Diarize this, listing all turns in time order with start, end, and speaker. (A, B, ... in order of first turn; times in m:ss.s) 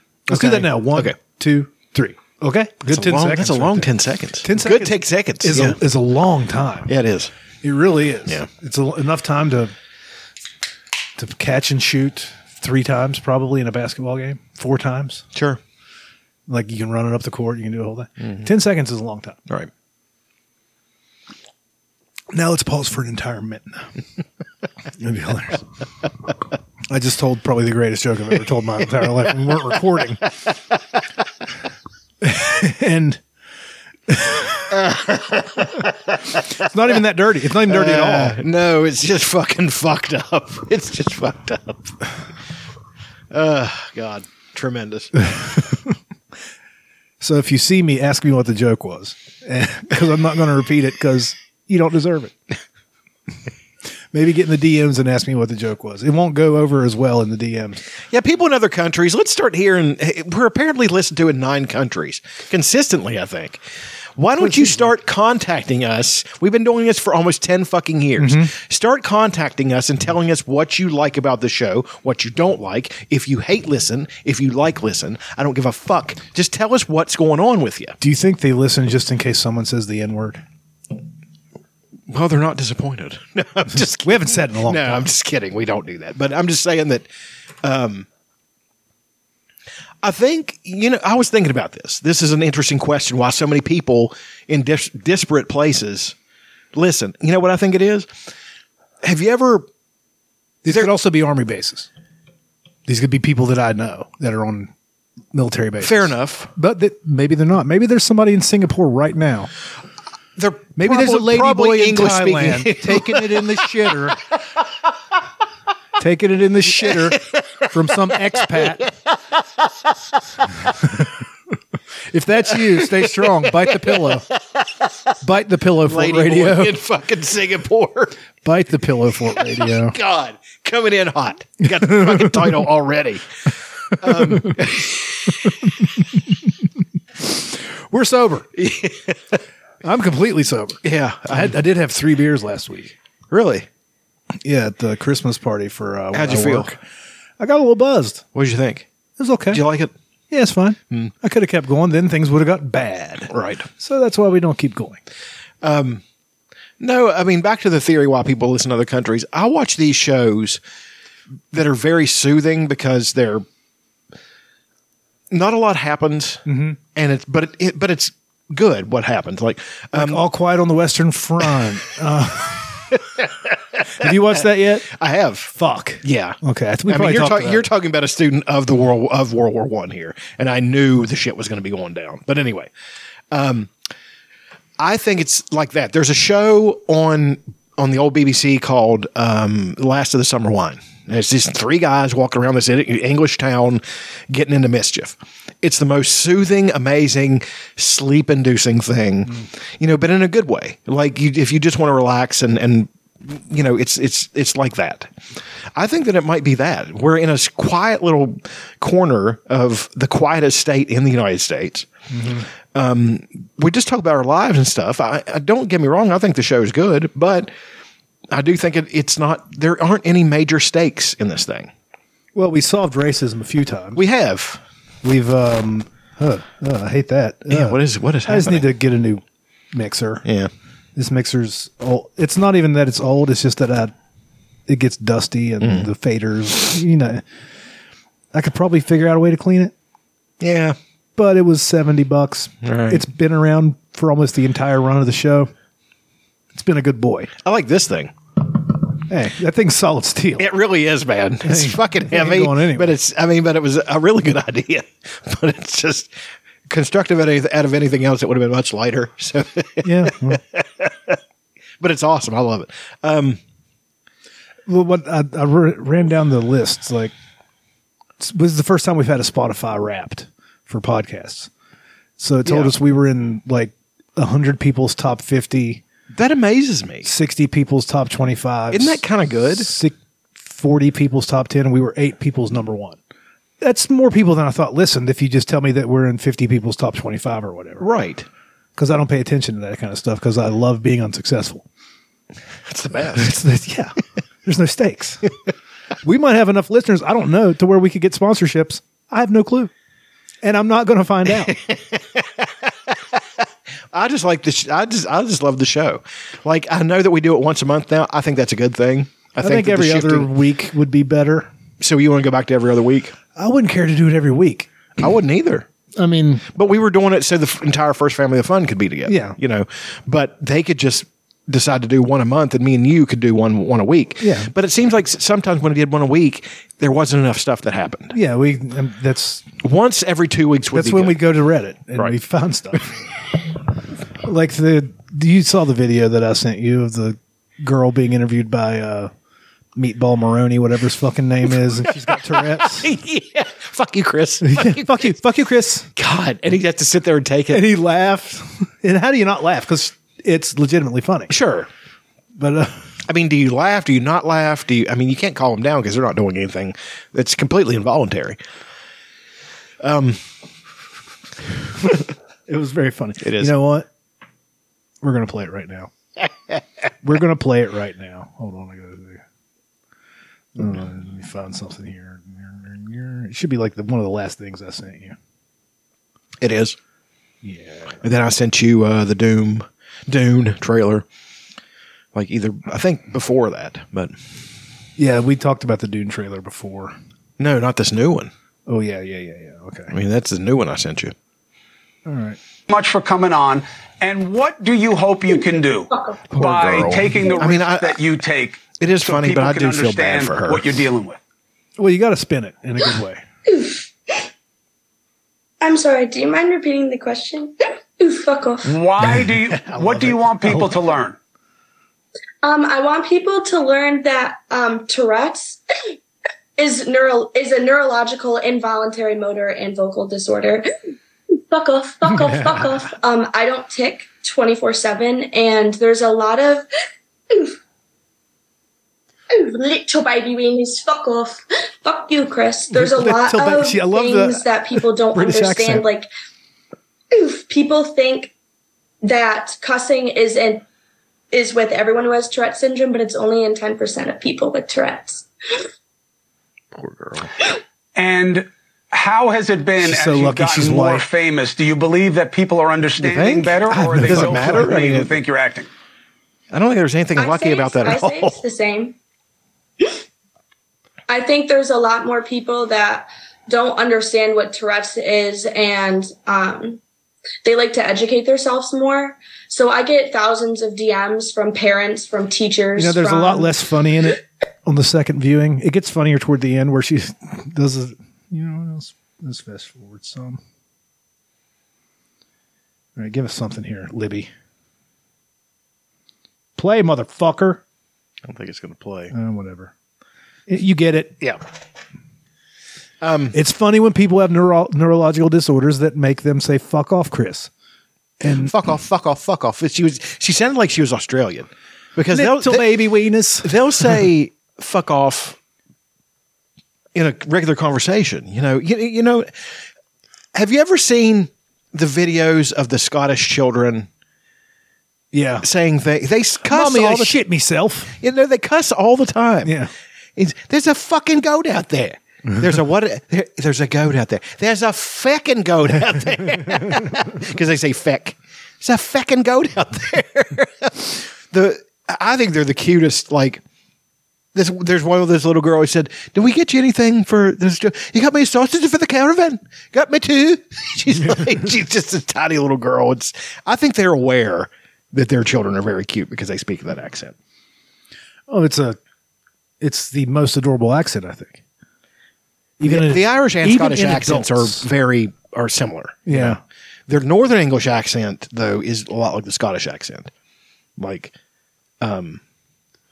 0:00.3-0:03.9 A
0:00.3-0:01.2 B
0:02.9-0:05.8 B
0:04.4-0:06.9 A
0:06.9-0:07.3 B
0:07.6-0:09.7 A
0:11.2-0:15.2 A
0:15.4-0:15.6 B
0:16.5-0:19.4 A
0:22.3-0:23.8 A
0:25.0-0:25.6 A
0:26.9-0:30.3 A
0:32.2-0:33.2 A
0:34.1-0:34.7 A
0:34.7-0:36.4 B
0:36.5-0:38.4 A
0:37.7-0:42.0 B
0:43.3-0:45.3 B
0:45.4-0:45.9 A
0:47.2-0:52.4 A
0:54.1-0:57.8 A
0:58.1-1:03.6 B
1:04.2-1:18.0 B
1:04.4-1:04.9 A
1:08.2-1:08.5 A
1:18.0-1:20.4 A
1:22.1-1:27.1 B
1:23.7-1:25.1 A
1:27.6-1:28.1 B
1:30.0-1:36.2 B
1:36.7-1:38.1 B
1:39.0-1:39.7 B
1:40.6-1:41.9 A
1:42.9-1:44.7 A
1:45.3-1:49.5 A
1:45.8-1:46.5 B
1:50.4-1:54.0 B
1:50.8-1:54.2 A
1:56.0-1:58.9 A
1:56.7-1:57.8 B
1:58.3-1:59.6 B
2:00.8-2:01.1 A
2:02.1-2:04.3 A
2:02.5-2:04.9 B
2:05.2-2:06.8 A
2:05.8-2:08.2 B
2:08.4-2:10.0 A
2:09.4-2:13.3 B
2:11.9-2:12.5 A
2:13.9-2:15.5 B
2:14.1-2:14.6 A
2:17.2-2:18.5 A
2:18.6-2:19.4 B
2:19.8-2:23.0 A
2:20.8-2:21.5 B
2:23.3-2:23.7 B
2:24.4-2:26.8 A
2:26.1-2:26.8 B
2:27.4-2:28.2 A
2:28.4-2:28.9 B
2:29.2-2:29.6 A
2:29.5-2:29.9 B
2:30.3-2:35.0 A
2:33.3-2:33.7 B
2:35.6-2:36.0 B
2:36.8-2:40.6 B
2:41.5-2:43.4 B
2:45.3-2:46.4 B
2:46.5-2:46.8 A
2:47.0-2:50.2 B
2:49.9-2:52.9 A
2:52.9-3:02.7 B
2:54.0-2:54.9 A
2:55.6-2:57.7 A
3:03.3-3:03.7 B
3:04.8-3:25.1 B
3:25.8-3:31.9 B
3:32.1-3:32.5 A
3:32.7-3:37.5 B
3:38.3-3:41.7 B
3:42.4-3:44.0 A
3:44.0-3:44.6 B
3:45.0-3:50.2 A
3:47.5-3:48.7 B
3:50.2-3:50.5 B
3:51.0-3:53.9 A
3:54.7-3:57.2 A
3:55.6-3:55.9 B
3:58.3-3:59.7 A
4:00.4-4:00.8 B
4:01.2-4:05.5 A
4:02.6-4:03.0 B
4:06.6-4:07.3 A
4:07.4-4:08.1 B
4:09.1-4:10.5 A
4:10.4-4:16.2 B
4:11.4-4:12.9 A
4:16.7-4:21.2 B
4:19.8-4:20.4 A
4:21.8-4:23.4 B
4:24.7-4:27.1 A
4:28.2-4:31.5 A
4:32.2-4:35.8 A
4:32.4-4:32.8 B
4:36.1-4:37.1 B
4:37.0-4:43.0 A
4:38.7-4:39.7 B
4:43.6-4:47.9 A
4:47.8-4:48.3 B
4:48.8-4:51.6 A
4:52.7-4:53.3 B
4:53.1-4:55.3 A
4:56.0-4:59.7 A
5:00.4-5:01.6 A
5:01.3-5:03.0 B
5:03.9-5:10.3 B
5:09.4-5:11.5 A
5:11.8-5:13.2 B
5:13.4-5:14.7 A
5:15.0-5:15.7 B
5:16.0-5:16.5 A
5:16.5-5:28.2 B
5:19.1-5:19.4 A
5:24.2-5:24.5 A
5:28.1-5:29.5 A
5:29.6-5:31.2 B
5:30.7-5:33.0 A
5:34.2-5:39.1 A
5:39.8-5:42.9 A
5:41.7-5:45.1 B
5:44.4-5:45.9 A
5:46.0-5:47.7 B
5:47.5-5:51.3 A
5:51.3-5:51.7 B
5:52.4-5:52.8 A
5:53.1-5:58.4 B
5:59.8-6:00.2 B
6:02.5-6:03.9 A
6:03.2-6:03.5 B
6:05.0-6:05.9 A
6:07.0-6:09.2 A
6:10.6-6:15.2 A
6:16.4-6:16.8 B
6:17.4-6:18.0 A
6:18.0-6:21.1 B
6:22.1-6:24.2 B
6:25.0-6:27.0 A
6:27.4-6:28.3 B
6:28.7-6:29.9 A
6:29.9-6:31.2 B
6:32.1-6:32.4 A
6:32.7-6:41.2 C
6:36.3-6:38.0 B
6:38.8-6:40.8 B
6:41.8-6:43.2 A
6:43.5-6:44.2 D
6:45.6-6:48.7 D
6:48.7-6:51.2 C
6:49.1-6:50.6 B
6:52.4-6:55.6 D
6:56.6-7:00.7 D
7:01.3-7:06.7 D
7:02.1-7:02.5 A
7:07.3-7:07.6 D
7:09.3-7:16.1 D
7:12.7-7:15.8 A
7:17.1-7:18.3 D
7:19.0-7:20.6 D
7:21.3-7:25.3 D
7:26.7-7:27.3 B
7:28.0-7:35.7 C
7:29.8-7:31.0 A
7:33.0-7:35.2 B
7:33.9-7:34.7 A
7:36.5-7:38.4 B
7:37.2-7:39.0 D
7:41.1-7:46.8 D
7:47.4-7:53.6 D
7:52.8-8:00.4 A
8:03.0-8:04.3 A
8:06.6-8:07.6 A
8:08.2-8:09.1 B
8:09.1-8:09.7 A
8:10.5-8:11.2 A
8:13.0-8:13.4 B
8:13.3-8:17.5 A
8:18.2-8:22.8 B
8:18.2-8:18.5 A
8:22.1-8:23.5 A
8:23.4-8:25.4 B
8:27.0-8:29.3 B
8:30.3-8:33.9 B
8:35.1-8:35.5 A
8:35.4-8:37.2 B
8:36.4-8:37.9 A
8:38.0-8:39.6 B
8:39.4-8:39.7 A
8:40.2-8:53.4 B
8:54.3-9:07.2 B
9:08.3-9:08.8 A
9:09.6-9:11.4 A
9:12.6-9:14.7 A
9:12.6-9:20.1 B
9:16.1-9:16.4 A
9:20.8-9:21.2 B
9:21.8-9:22.2 B